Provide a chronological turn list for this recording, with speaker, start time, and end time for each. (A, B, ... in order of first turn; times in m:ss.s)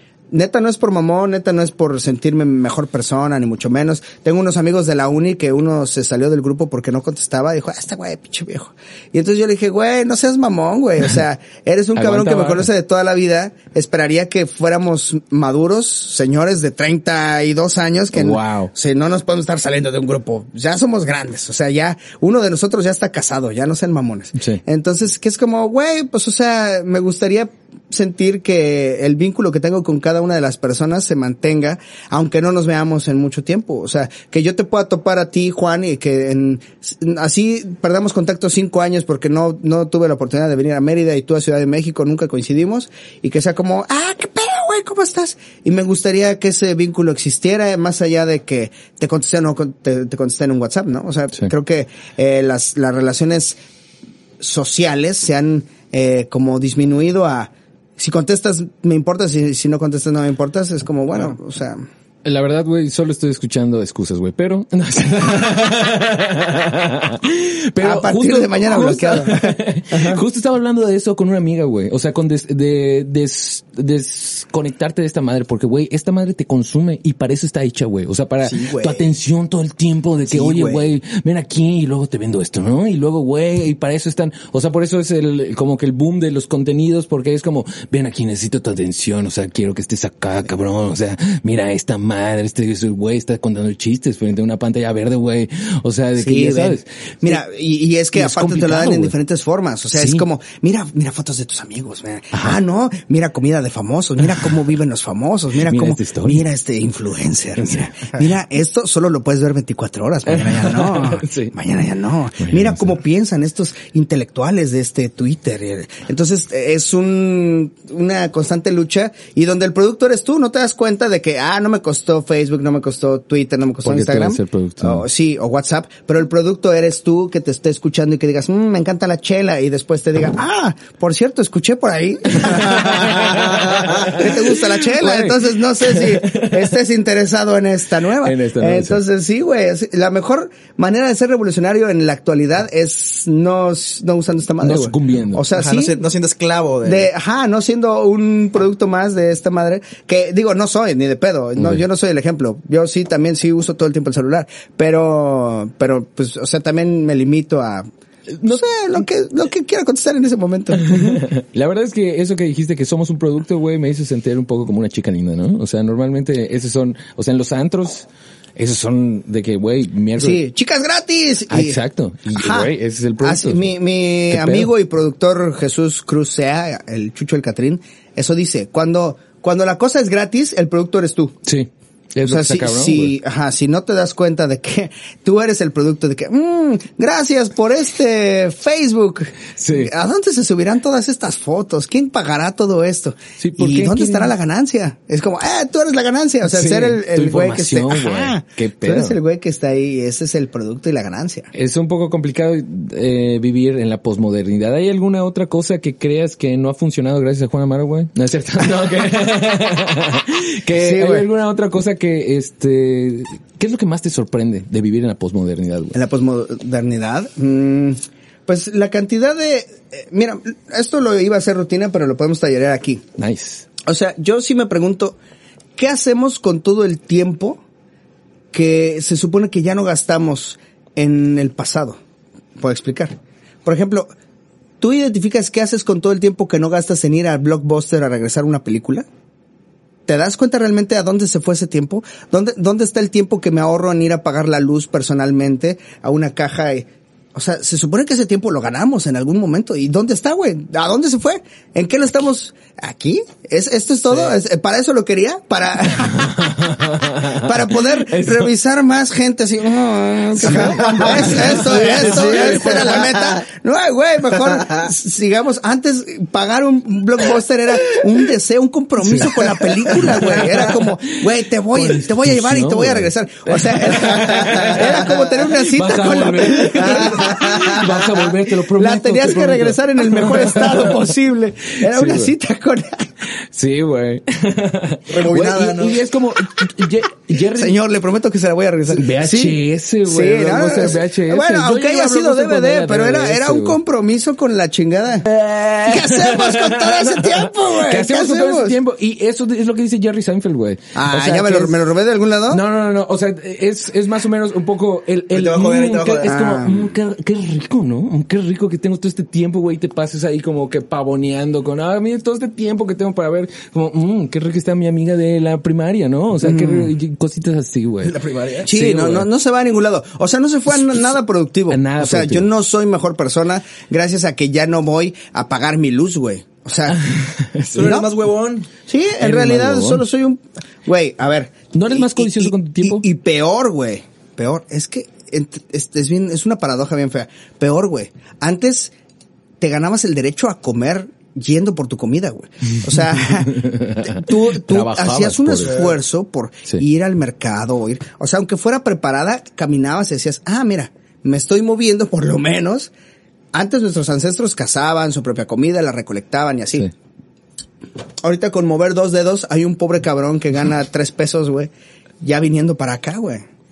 0:00.3-0:53.6 A
0:11.9-0:12.7 B
0:18.1-0:18.7 B
0:24.4-0:24.6 B
0:54.4-1:01.8 A
1:02.2-1:37.4 B
1:07.8-1:10.2 A
1:18.4-1:19.1 C
1:20.3-1:20.9 C
1:36.2-2:25.9 A
1:38.1-1:39.1 B
1:39.9-1:40.2 B
1:45.6-1:46.4 B
1:47.6-1:48.1 B
1:50.3-1:51.5 B
1:52.4-1:52.9 B
2:03.8-2:05.0 B
2:12.3-2:16.6 B
2:18.2-2:19.0 B
2:24.6-2:25.4 B
2:25.5-2:27.1 C
2:26.8-2:37.9 A
2:31.6-2:31.8 B
2:38.4-2:38.6 B
2:38.4-2:41.2 A
2:40.9-2:50.4 B
2:50.2-2:51.8 A
2:51.5-2:53.7 B
2:52.3-3:01.4 A
2:54.3-2:54.7 B
3:01.4-3:03.2 B
3:02.2-3:21.5 A
3:09.6-3:09.9 B
3:13.4-3:14.3 B
3:16.4-3:19.2 B
3:21.5-3:36.0 B
3:30.7-3:31.3 A
3:35.9-3:43.0 A
3:43.2-3:43.6 B
3:43.8-3:45.2 A
3:45.8-3:47.6 A
3:48.5-3:52.0 A
3:52.6-3:54.1 A
3:54.8-3:59.0 A
4:00.1-4:16.6 A
4:16.2-4:17.5 B
4:17.2-4:43.1 A
4:18.0-4:18.5 B
4:20.4-4:23.1 B
4:21.6-4:23.2 C
4:29.0-4:31.2 B
4:31.7-4:41.0 B
4:36.9-4:37.7 C
4:41.8-4:42.3 B
4:43.5-4:47.7 B
4:45.1-4:46.0 C
4:45.4-4:45.7 A
4:47.3-4:55.3 A
4:48.9-4:53.8 B
4:55.2-5:01.7 B
4:55.8-4:58.8 A
5:00.9-5:02.6 A
5:02.5-5:19.3 B
5:05.3-5:06.3 C
5:06.2-5:06.9 A
5:16.4-5:16.9 A
5:18.0-5:18.7 C
5:18.6-5:27.0 A
5:21.7-5:22.4 B
5:26.9-5:28.0 B
5:27.7-5:28.7 C
5:27.8-5:28.1 A
5:28.9-5:38.9 A
5:29.2-5:30.0 B
5:31.7-5:33.0 B
5:39.6-5:52.9 A
5:43.5-5:45.8 B
5:53.5-5:56.9 A
5:58.2-6:01.7 A
6:02.2-6:03.4 A